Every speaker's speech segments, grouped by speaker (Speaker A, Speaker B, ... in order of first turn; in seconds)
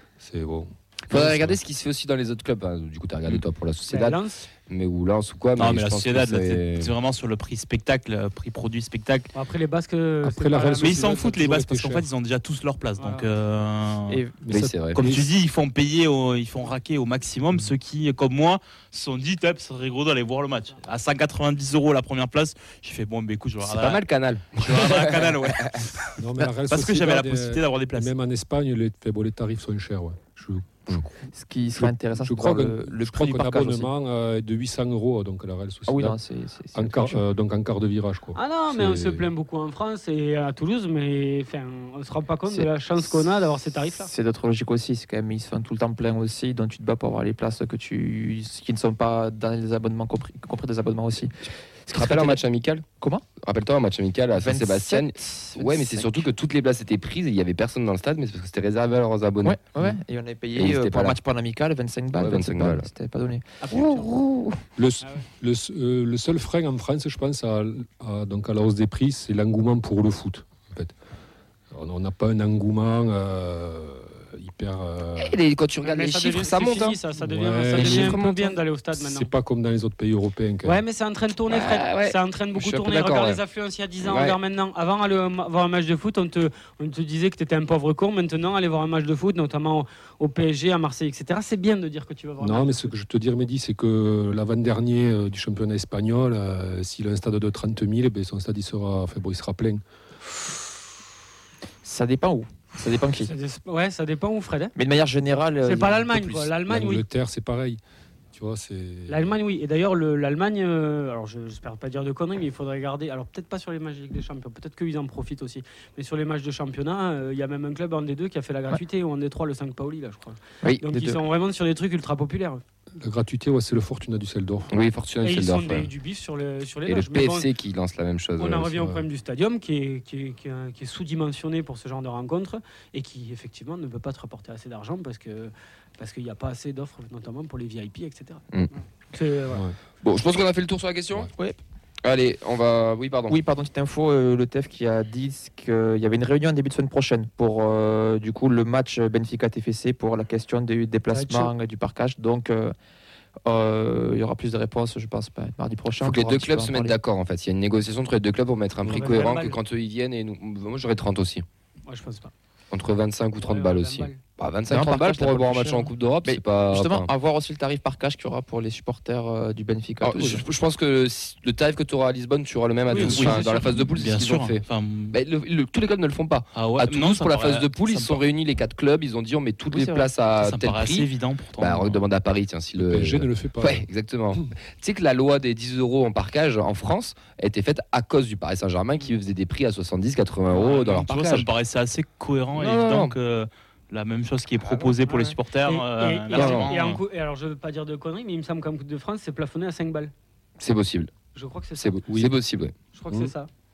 Speaker A: 0.2-1.6, 10.2-12.1, 14.4-15.2, 26.2-31.1, 31.7-36.2, 36.7-39.3, 64.8-70.9, 71.7-75.4, 77.2-78.3, 78.9-80.8, 92.4-99.8, 106.7-107.8, 108.3-109.3, 123.0-124.7, 128.8-129.1, 182.8-183.9
Speaker B: 1.1-7.0, 14.5-15.0, 23.6-25.9, 51.9-52.9, 53.4-59.9, 60.5-61.2, 62.1-62.9, 63.7-64.6, 75.2-77.0, 77.7-78.6, 81.5-83.4, 84.0-84.4, 124.7-125.9, 126.9-128.7, 140.0-141.3, 142.0-143.4, 156.0-161.4, 162.7-167.1, 170.0-191.5, 192.6-193.2, 194.7-194.9, 196.3-196.7, 200.6-201.1, 201.8-202.7
Speaker C: 3.9-4.4, 9.3-11.4, 13.0-13.3, 38.3-44.1, 63.6-64.1, 65.0-65.3, 75.8-79.3, 80.6-93.0, 103.2-104.7, 105.6-107.1, 109.1-122.6, 125.2-127.5, 128.4-139.7, 151.1-151.5, 158.8-159.6, 161.8-162.3, 163.4-164.2, 172.9-173.8, 195.1-200.1, 201.3-202.0, 202.9-203.5
Speaker D: 5.6-9.3, 10.8-14.2, 14.9-24.0, 24.6-25.9, 26.6-28.1, 173.0-175.2, 176.6-178.2, 180.4-182.0, 190.5-197.0
Speaker E: 14.1-14.4, 31.3-33.9, 35.9-37.2, 44.0-51.3, 51.9-52.4, 53.0-53.2, 54.4-56.3, 59.4-63.6, 101.8-103.3, 104.8-106.5, 120.9-121.2, 143.3-152.7, 153.5-157.0, 164.7-170.4, 179.7-180.1